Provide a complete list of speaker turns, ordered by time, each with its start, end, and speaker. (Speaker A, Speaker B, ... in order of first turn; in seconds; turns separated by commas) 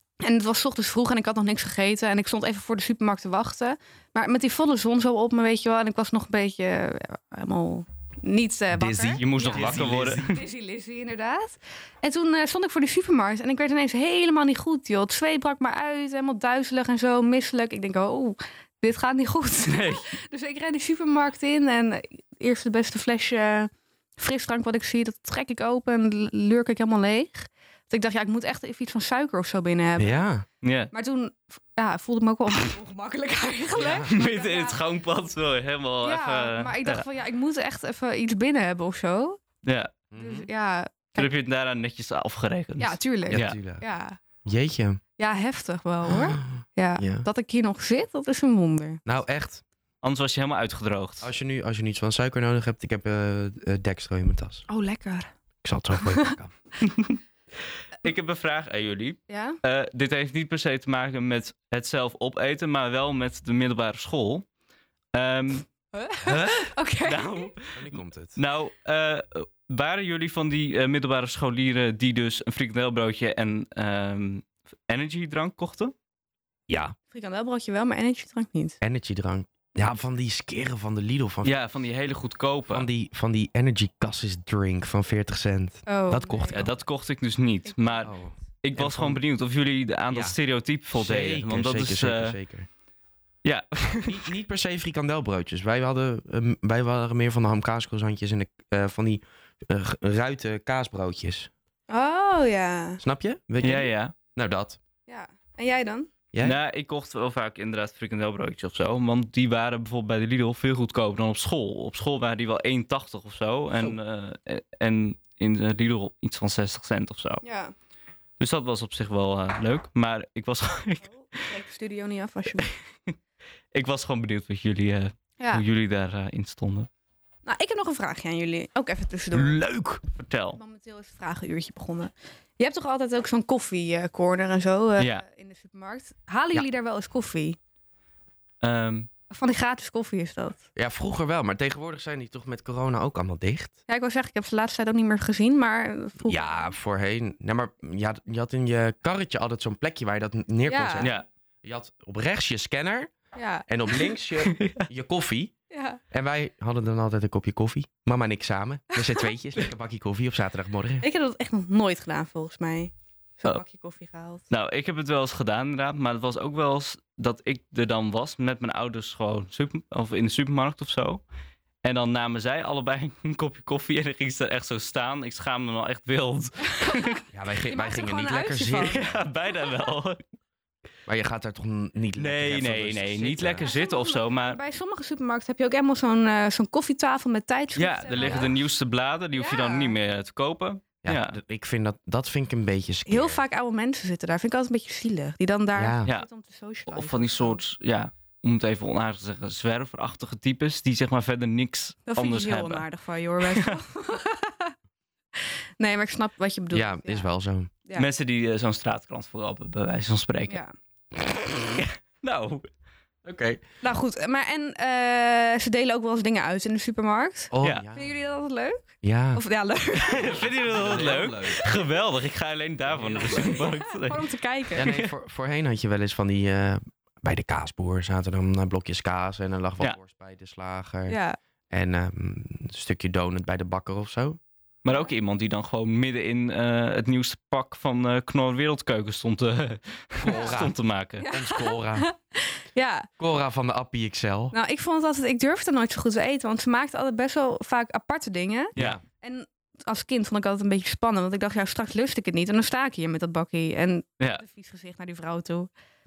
Speaker A: 0.2-30.2, Speaker B: 8.7-10.3, Speaker C: 9.2-10.4, Speaker C: 19.6-20.1, Speaker B: 30.0-30.4, Speaker C: 30.6-30.9, Speaker A: 30.9-34.8, Speaker B: 33.8-34.1, Speaker C: 34.1-37.0, Speaker A: 36.0-39.4, Speaker C: 39.6-39.9, Speaker B: 40.1-40.5, Speaker A: 40.2-41.3, Speaker C: 41.2-43.5, Speaker A: 42.8-44.2, Speaker B: 43.3-43.8, Speaker B: 44.4-45.0, Speaker A: 45.2-49.0, Speaker B: 46.1-47.2, Speaker B: 49.0-49.6, Speaker C: 50.0-51.3, Speaker B: 51.2-54.6, Speaker A: 54.7-55.3, Speaker B: 55.6-56.5, Speaker A: 56.0-56.3, Speaker C: 56.9-57.2, Speaker C: 58.0-64.5, Speaker A: 59.3-59.6, Speaker C: 65.1-65.7, Speaker A: 65.9-67.5, Speaker C: 66.2-75.9, Speaker B: 67.7-68.4, Speaker B: 76.7-77.0, Speaker A: 77.1-78.8, Speaker B: 78.8-81.5, Speaker C: 81.4-82.9, Speaker B: 82.7-86.7, Speaker A: 85.9-86.6, Speaker C: 86.5-92.4, Speaker B: 88.0-89.2, Speaker B: 90.1-90.4, Speaker B: 90.9-92.7, Speaker C: 93.4-94.3, Speaker B: 93.8-101.5, Speaker A: 101.9-103.0, Speaker B: 103.0-104.8, Speaker C: 103.6-104.1, Speaker A: 105.1-106.1, Speaker B: 106.3-106.6, Speaker C: 106.4-117.4, Speaker A: 117.4-117.7, Speaker C: 118.4-121.1, Speaker A: 121.1-122.7, Speaker C: 122.6-123.1, Speaker C: 123.7-126.9, Speaker A: 125.4-125.6, Speaker A: 127.4-129.6, Speaker B: 129.3-130.0, Speaker C: 130.1-130.6, Speaker A: 130.5-137.6, Speaker C: 135.0-135.2, Speaker C: 138.6-139.1, Speaker A: 139.3-140.6, Speaker B: 140.8-143.8, Speaker A: 143.9-146.7, Speaker B: 146.2-153.1, Speaker A: 150.7-151.1, Speaker C: 151.0-151.2, Speaker A: 153.3-153.7, Speaker B: 153.7-155.5, Speaker C: 154.4-154.9, Speaker A: 155.7-156.0, Speaker B: 156.1-161.1, Speaker A: 161.0-164.4, Speaker C: 164.5-171.2, Speaker C: 171.8-177.2, Speaker A: 176.7-179.1, Speaker B: 177.3-179.2, Speaker C: 178.8-180.2, Speaker B: 181.1-183.7, Speaker C: 182.2-184.6, Speaker A: 183.6-188.6, Speaker C: 187.8-191.4, Speaker A: 189.3-190.0, Speaker B: 191.0-193.4, Speaker A: 193.1-197.6, Speaker B: 195.8-196.1, Speaker C: 196.9-202.8, Speaker A: 202.1-204.7, Speaker C: 203.4-203.8, Speaker A: 205.3-207.3, Speaker B: 206.7-207.7, Speaker C: 207.9-210.6, Speaker C: 211.6-212.7, Speaker B: 213.2-213.6, Speaker A: 213.8-220.4, Speaker B: 217.5-218.1, Speaker B: 219.0-219.4, Speaker C: 220.0-225.1, Speaker B: 220.1-221.8, Speaker B: 222.9-223.6, Speaker A: 223.2-224.9, Speaker B: 224.7-231.2, Speaker A: 231.1-231.4, Speaker B: 231.7-234.4, Speaker C: 234.8-241.2, Speaker B: 240.2-240.8, Speaker A: 241.2-243.1, Speaker B: 241.3-242.1, Speaker B: 243.2-244.5, Speaker A: 244.5-255.7, Speaker B: 248.8-249.0